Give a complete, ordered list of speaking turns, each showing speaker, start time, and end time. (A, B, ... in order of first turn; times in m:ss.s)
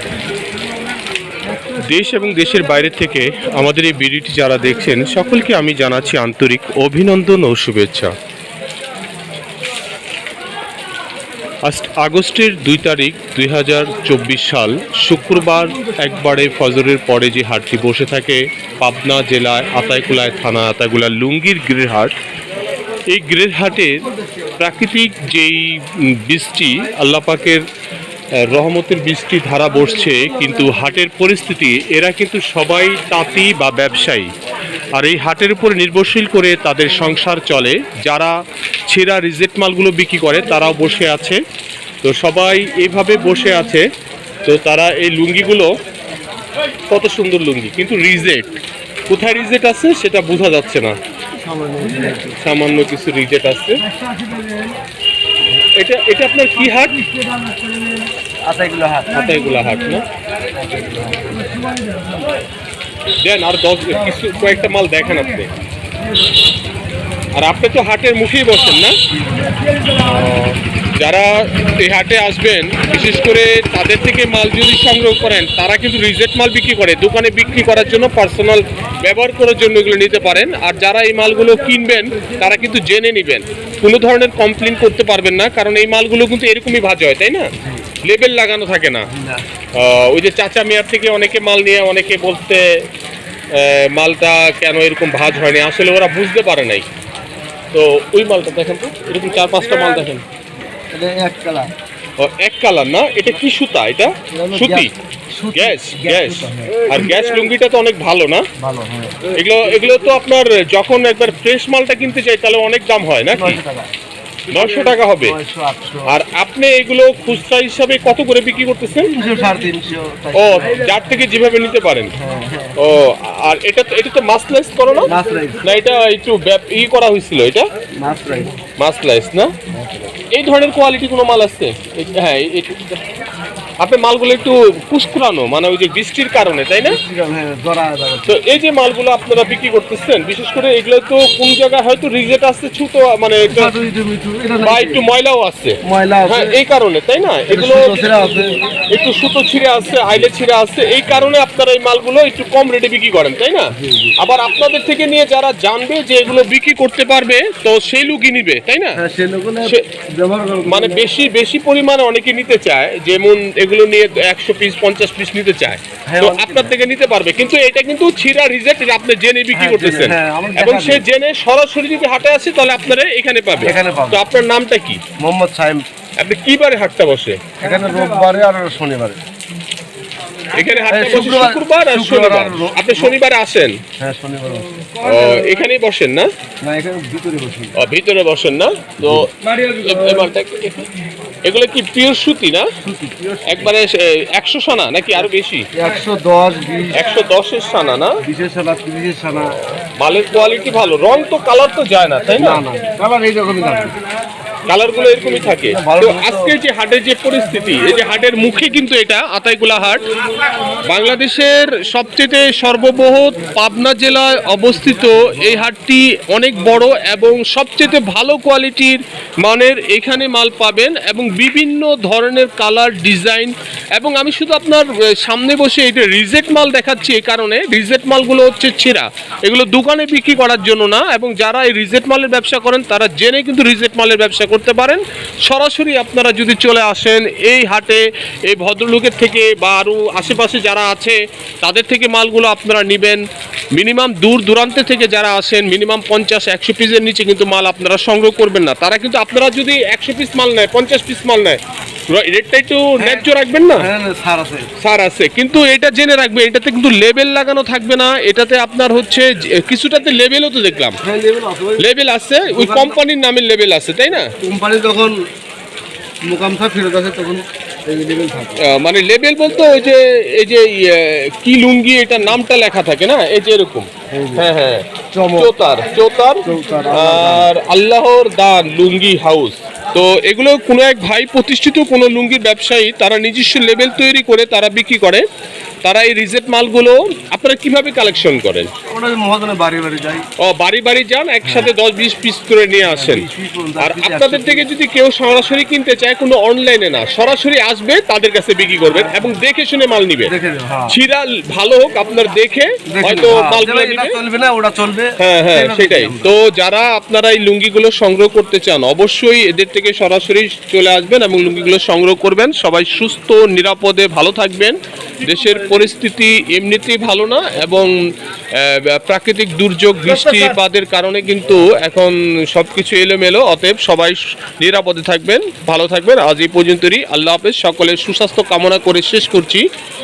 0:01.8-0:08.1 A
0:11.6-0:22.2 A
0:23.1-0:24.0 A
0:24.6-0:27.6 A
0:28.4-0:34.3 A
0:34.9-0:38.3 A
0:38.9-0:41.4 A
0:42.0-0:43.8 A
0:44.4-0:45.7 A
0:46.9-0:48.4 A
0:49.1-0:50.9 A
0:51.3-0:52.4 B
0:52.4-0:53.8 A
0:55.8-0:57.0 A
0:58.4-0:59.1 B
0:59.1-1:00.0 A
1:00.5-1:01.7 B
1:03.2-1:05.5 A
1:07.3-1:09.0 A
1:10.0-1:27.5 A
1:27.6-1:27.9 B
1:28.0-1:29.1 A
1:29.1-1:29.4 B
1:29.7-1:32.7 A
1:33.5-1:36.9 A
1:37.7-1:40.2 A
1:40.9-1:41.7 B
1:42.2-1:44.9 A
1:44.3-1:46.9 B
1:45.5-1:48.4 A
1:48.6-1:49.3 B
1:49.3-1:53.6 A
1:53.3-1:53.9 B
1:54.5-1:55.4 A
1:54.6-1:56.1 B
1:56.1-1:59.1 A
1:59.1-2:00.7 B
2:00.4-2:02.1 A
2:02.2-2:02.8 B
2:02.8-2:05.1 A
2:05.0-2:05.7 B
2:05.6-2:07.7 A
2:08.0-2:08.5 B
2:08.8-2:09.5 A
2:09.7-2:10.1 B
2:10.3-2:13.0 A
2:13.8-2:17.0 A
2:16.8-2:18.4 B
2:18.3-2:23.7 A
2:23.5-2:25.0 B
2:24.6-2:28.1 A
2:25.8-2:26.6 B
2:27.5-2:28.6 B
2:28.9-2:39.0 A
2:33.7-2:34.1 B
2:38.9-2:41.0 B
2:40.6-2:55.0 A
2:46.0-2:46.7 B
2:49.5-2:51.0 B
2:53.6-2:54.2 B
2:55.2-2:55.8 B
2:56.2-2:57.4 A
2:57.6-2:59.2 B
3:00.5-3:03.8 A
3:00.9-3:03.1 B
3:04.0-3:04.7 B
3:05.0-3:06.3 A
3:06.6-3:07.8 B
3:07.8-3:10.9 A
3:09.0-3:09.3 B
3:11.4-3:12.7 A
3:12.8-3:13.7 B
3:13.5-3:15.7 A
3:15.7-3:17.0 B
3:16.9-3:18.2 A
3:18.2-3:19.6 B
3:19.5-3:22.6 A
3:22.4-3:23.9 B
3:24.7-3:30.0 A
3:25.6-3:26.6 B
3:30.8-4:11.6 A
4:12.1-4:13.8 A
4:13.0-4:14.7 B
4:14.8-4:21.0 A
4:21.0-4:21.8 B
4:21.8-4:24.3 A
4:22.5-4:23.0 B
4:24.4-4:25.2 B
4:26.2-4:28.6 B
4:28.6-4:34.8 A
4:34.1-4:34.5 B
4:35.1-4:35.5 B
4:35.4-4:45.2 A
4:36.4-4:37.5 B
4:45.8-4:48.7 A
4:48.9-4:50.2 B
4:50.4-4:53.2 A
4:52.9-4:54.7 B
4:53.8-5:00.3 A
4:58.9-4:59.2 B
5:00.3-5:01.0 B
5:00.9-5:04.2 A
5:02.9-5:06.3 B
5:05.2-5:18.0 A
5:18.5-5:29.6 A